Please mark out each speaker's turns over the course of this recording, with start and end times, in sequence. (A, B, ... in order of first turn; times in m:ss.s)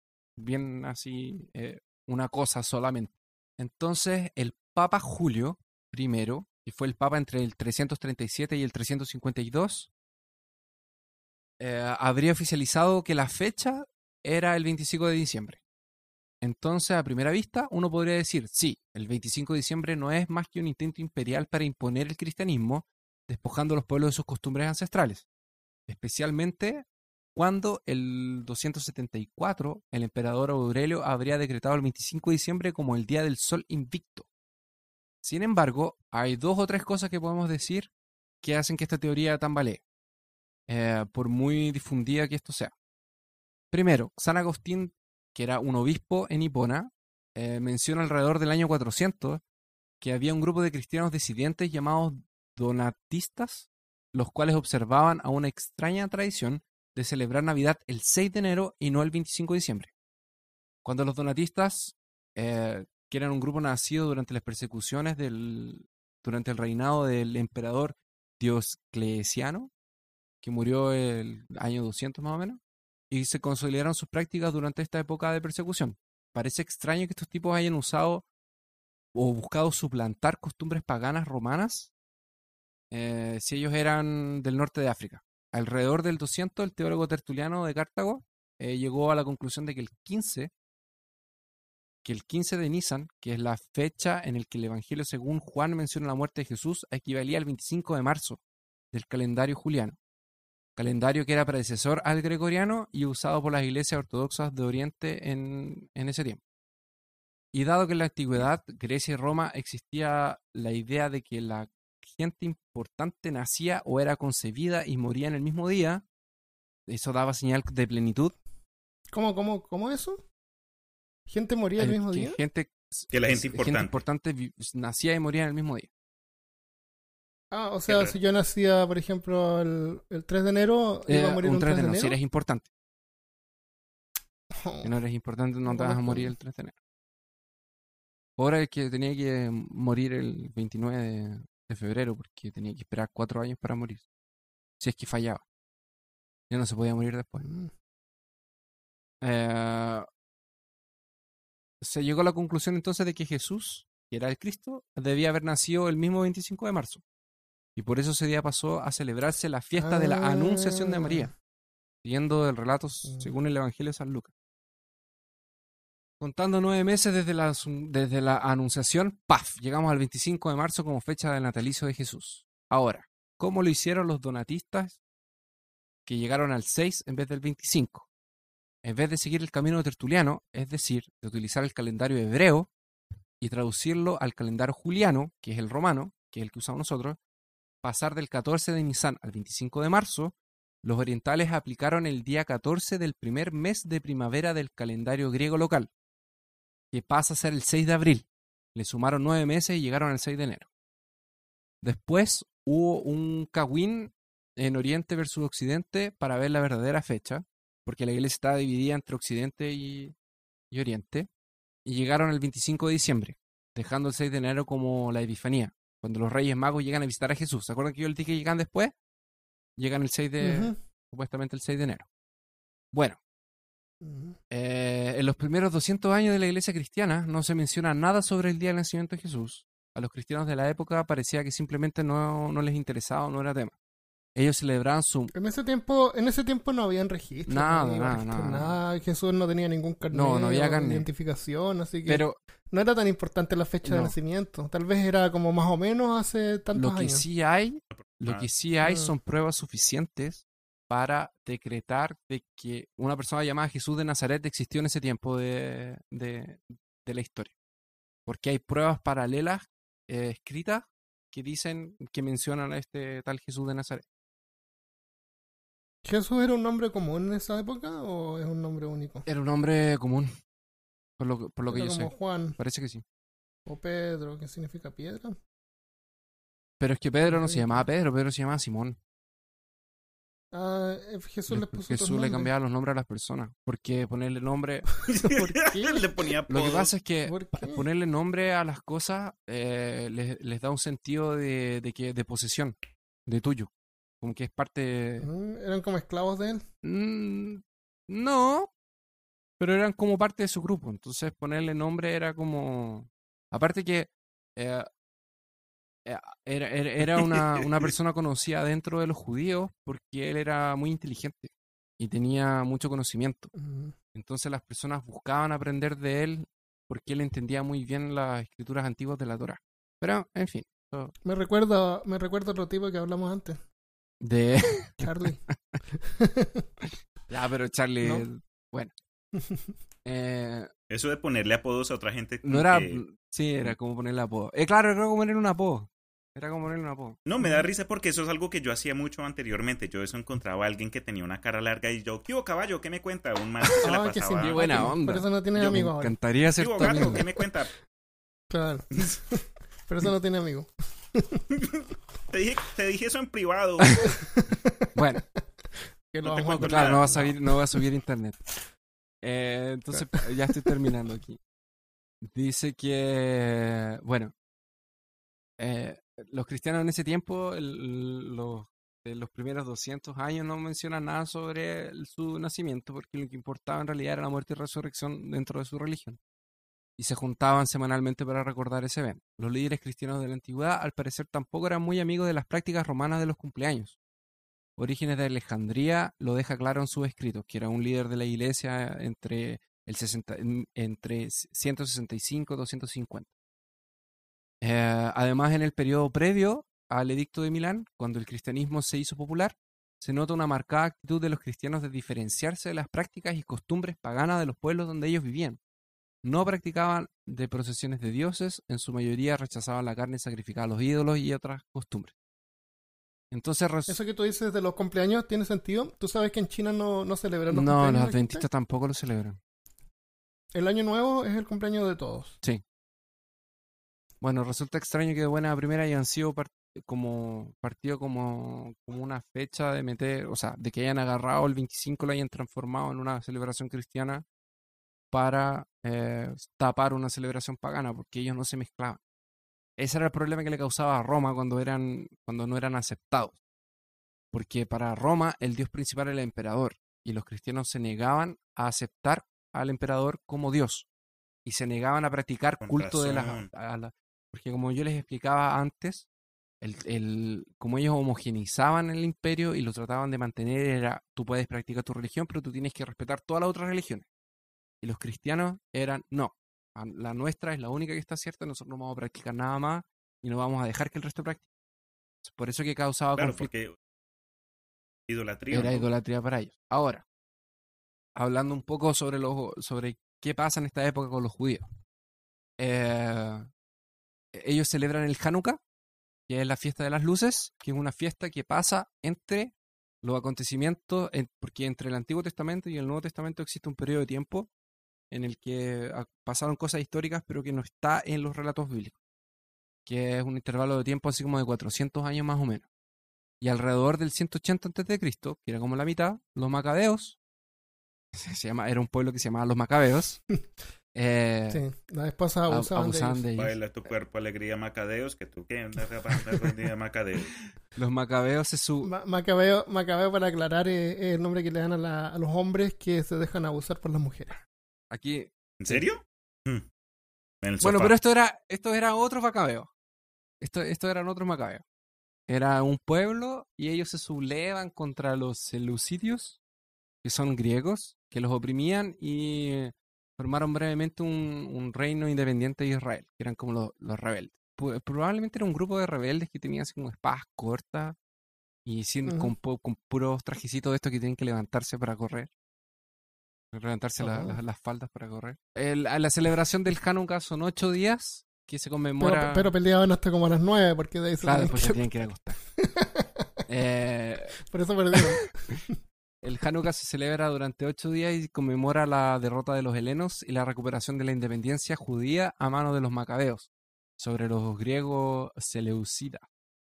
0:00.4-0:09.9 A
0:11.6-0:15.6 A
0:16.4-0:25.3 A
0:25.9-0:34.3 A
0:35.2-0:37.9 A
0:38.4-0:39.8 A
0:40.7-0:42.7 A
0:43.7-0:49.4 A
0:50.0-0:59.9 A
1:00.8-1:09.7 A
1:10.4-1:18.2 A
1:19.1-1:21.9 A
1:22.9-1:30.5 A
1:32.0-1:38.4 A
1:38.9-1:40.0 A
1:40.8-1:46.4 A
1:47.5-1:56.0 A
1:56.9-1:58.4 A
1:59.1-2:00.2 B
2:01.3-2:02.4 B
2:01.8-2:05.9 A
2:03.1-2:04.0 C
2:07.5-2:12.2 B
2:07.9-2:08.1 C
2:11.1-2:12.7 A
2:14.6-2:14.9 B
2:14.8-2:16.8 A
2:15.7-2:16.3 B
2:18.4-2:24.1 A
2:24.8-2:25.4 A
2:26.5-2:27.5 A
2:27.4-2:27.7 B
2:29.2-2:30.1 A
2:31.8-2:37.0 A
2:37.8-2:41.3 A
2:39.8-2:41.3 B
2:42.0-2:44.3 A
2:43.0-2:43.3 B
2:46.2-2:55.0 A
2:56.1-2:58.1 A
2:58.8-3:02.7 A
3:03.4-3:07.2 A
3:07.8-3:15.9 A
3:16.9-3:20.7 A
3:21.8-3:30.1 A
3:30.7-3:31.3 A
3:31.8-3:38.9 A
3:39.8-3:42.1 A
3:40.4-3:40.8 B
3:42.9-3:43.2 A
3:44.0-3:44.4 B
3:44.5-3:53.8 A
3:54.4-3:55.3 A
3:55.3-4:07.2 B
3:57.5-3:58.8 A
4:00.1-4:01.1 A
4:02.1-4:02.4 A
4:03.8-4:04.1 A
4:06.7-4:17.5 A
4:07.9-4:08.5 C
4:08.8-4:09.1 B
4:18.3-4:24.0 A
4:26.0-4:29.3 B
4:29.3-4:30.3 A
4:31.2-4:33.0 A
4:31.7-4:32.6 B
4:33.7-4:35.4 B
4:36.8-4:39.0 A
4:37.3-4:37.8 B
4:40.5-4:42.5 B
4:41.5-4:44.9 A
4:45.1-4:46.0 B
4:45.1-4:46.9 C
4:46.5-4:55.3 A
4:47.2-4:47.8 B
4:55.2-4:56.6 B
4:56.8-4:58.7 A
4:59.6-5:04.9 A
5:06.0-5:13.5 A
5:13.6-5:14.0 B
5:14.1-5:21.1 A
5:21.2-5:23.6 B
5:24.2-5:25.8 A
5:25.0-5:25.4 B
5:25.9-5:26.7 B
5:27.3-5:28.9 A
5:29.4-5:29.7 B
5:30.0-5:30.7 A
5:30.9-5:33.0 C
5:32.4-5:37.2 A
5:37.3-5:44.9 C
5:37.4-5:37.6 B
5:43.8-5:46.2 B
5:44.4-5:47.3 A
5:46.6-5:47.7 C
5:48.5-5:51.4 B
5:51.5-5:54.1 C
5:54.0-5:54.9 B
5:55.0-5:55.2 A
5:56.1-5:57.8 B
5:56.2-5:57.3 C
5:56.6-5:58.4 A
5:59.2-6:01.4 A
6:02.2-6:04.3 A
6:05.6-6:16.2 A
6:17.0-6:24.0 A
6:24.8-6:33.3 A
6:34.6-6:45.6 A
6:46.2-6:52.1 A
6:53.3-6:54.0 A
6:53.9-6:58.4 B
6:57.5-6:59.4 A
7:00.5-7:02.4 B
7:04.2-7:14.2 A
7:15.1-7:19.0 A
7:19.8-7:23.4 A
7:24.3-7:30.9 A
7:31.4-7:36.1 A
7:32.6-7:33.5 C
7:36.6-7:44.1 A
7:44.8-7:51.5 A
7:52.2-7:53.5 A
7:53.2-7:53.8 C
7:55.1-7:55.9 C
7:55.5-7:57.0 A
7:58.1-8:01.7 A
8:02.6-8:03.5 A
8:04.3-8:05.6 A
8:06.3-8:14.5 A
8:15.1-8:19.0 A
8:19.9-8:22.7 A
8:23.4-8:27.2 A
8:28.1-8:30.2 A
8:30.9-8:31.6 A
8:31.5-8:33.2 B
8:32.5-8:33.6 A
8:33.4-8:37.4 C
8:37.8-8:38.9 A
8:38.8-8:44.4 B
8:44.9-8:45.8 A
8:45.6-8:46.6 C
8:47.4-8:48.0 C
8:47.6-8:49.7 A
8:50.4-8:51.6 A
8:52.3-8:56.4 A
8:57.0-9:08.0 A
9:08.6-9:12.3 A
9:09.1-9:09.3 B
9:13.5-9:19.5 A
9:14.0-9:14.4 B
9:19.0-9:21.8 B
9:21.2-9:22.4 A
9:22.6-9:23.3 B
9:23.5-9:24.4 A
9:24.4-9:25.6 B
9:26.2-9:36.3 A